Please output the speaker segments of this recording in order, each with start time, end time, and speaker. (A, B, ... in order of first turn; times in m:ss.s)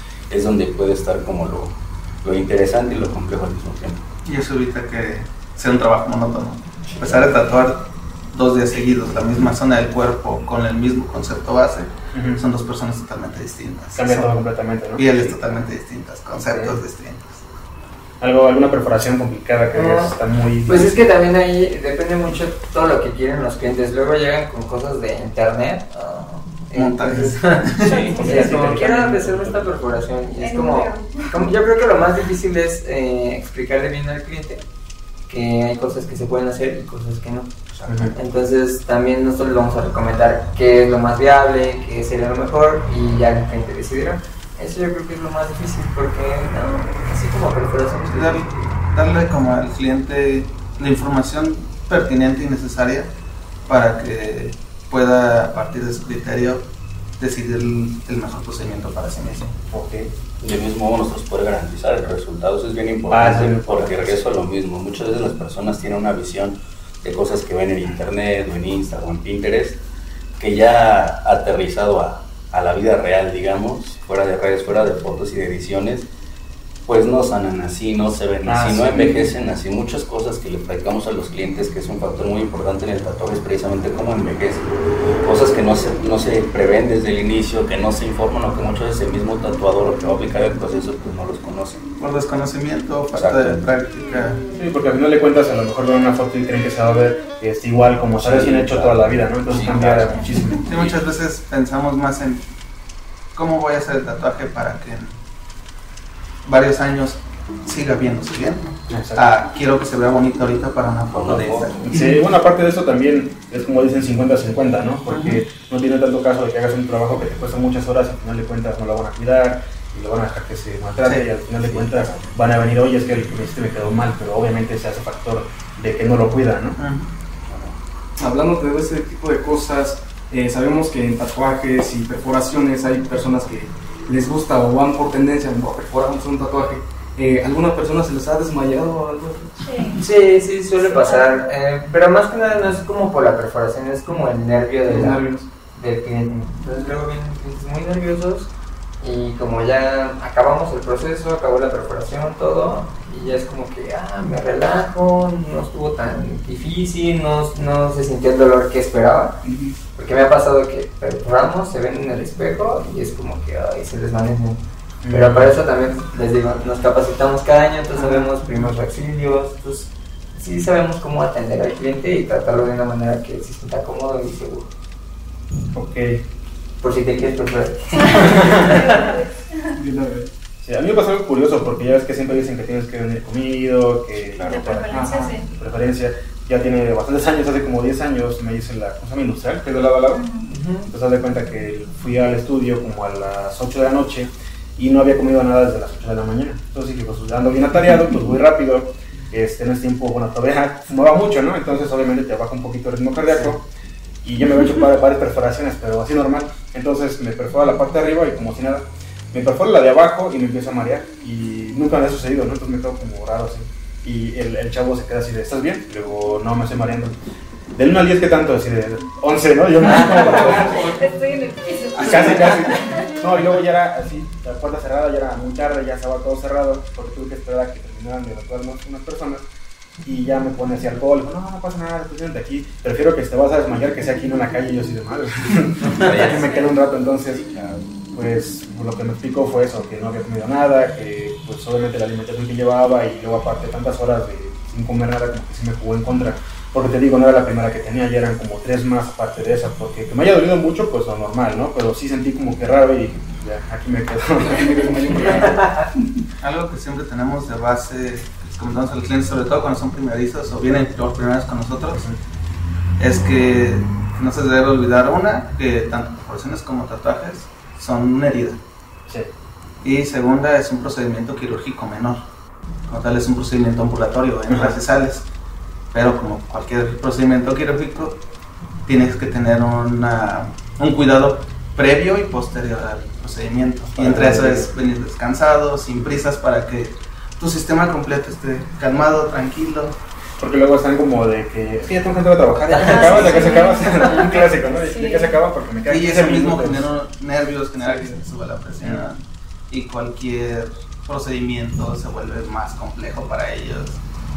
0:00.3-0:04.0 A
0:04.3-0:17.4 B
0:06.9-0:07.4 A
0:12.1-0:12.4 C
0:14.0-0:15.4 C
0:16.5-0:16.8 C
0:18.2-0:21.0 C
0:19.7-0:34.7 D
0:26.8-0:28.1 B
0:27.8-0:28.8 E
0:27.9-0:28.2 A
0:28.2-0:29.7 C
0:30.4-0:31.5 E
0:35.3-0:37.5 D
0:37.7-0:38.2 A
0:37.9-0:38.1 C
0:38.1-0:48.7 D
0:48.1-0:53.1 B
0:53.7-0:56.7 B
0:57.2-0:59.6 B
0:59.7-1:00.1 C
1:00.4-1:09.8 A
1:03.1-1:04.2 C
1:10.4-1:16.1 A
1:16.9-1:24.7 A
1:18.4-1:19.3 C
1:25.2-1:31.8 A
1:32.0-1:34.4 B
1:33.1-1:33.6 A
1:34.5-1:40.7 C
1:38.2-1:41.0 A
1:40.7-1:42.5 B
1:43.3-1:45.2 B
1:46.4-1:52.0 B
1:48.9-1:49.2 C
1:51.1-1:51.8 A
1:51.9-2:06.8 C
1:55.1-1:55.4 B
2:01.6-2:02.4 A
2:06.8-2:07.1 B
2:07.5-2:07.8 A
2:08.2-2:19.7 F
2:19.6-2:20.0 E
2:20.0-2:25.2 D
2:20.8-2:21.3 E
2:24.9-2:25.5 F
2:25.7-2:28.5 D
2:29.0-2:39.4 D
2:39.4-2:39.8 F
2:40.0-2:54.7 D
2:45.0-2:45.6 C
2:55.7-2:56.2 C
2:56.8-2:59.1 D
2:58.0-2:59.8 E
2:59.7-3:00.3 F
3:00.6-3:10.2 C
3:04.1-3:04.9 A
3:04.5-3:05.5 E
3:04.9-3:05.3 F
3:10.1-3:10.5 E
3:10.5-3:10.9 D
3:10.9-3:23.7 C
3:24.2-3:37.2 C
3:37.8-3:40.8 C
3:39.8-3:40.6 D
3:39.9-3:43.0 E
3:42.0-3:49.4 C
3:50.0-3:57.4 C
3:55.8-3:57.9 A
3:58.1-4:15.6 C
4:14.4-4:15.8 F
4:15.5-4:15.8 D
4:16.4-4:22.0 B
4:21.9-4:22.2 C
4:23.0-4:28.6 B
4:29.8-4:32.2 B
4:32.9-4:35.3 B
4:34.5-4:34.8 C
4:35.9-4:38.2 B
4:38.9-4:50.0 B
4:44.0-4:44.7 C
4:50.4-4:56.9 C
4:52.7-4:54.4 D
4:52.9-4:55.4 E
4:55.9-5:04.0 B
4:57.8-4:58.2 F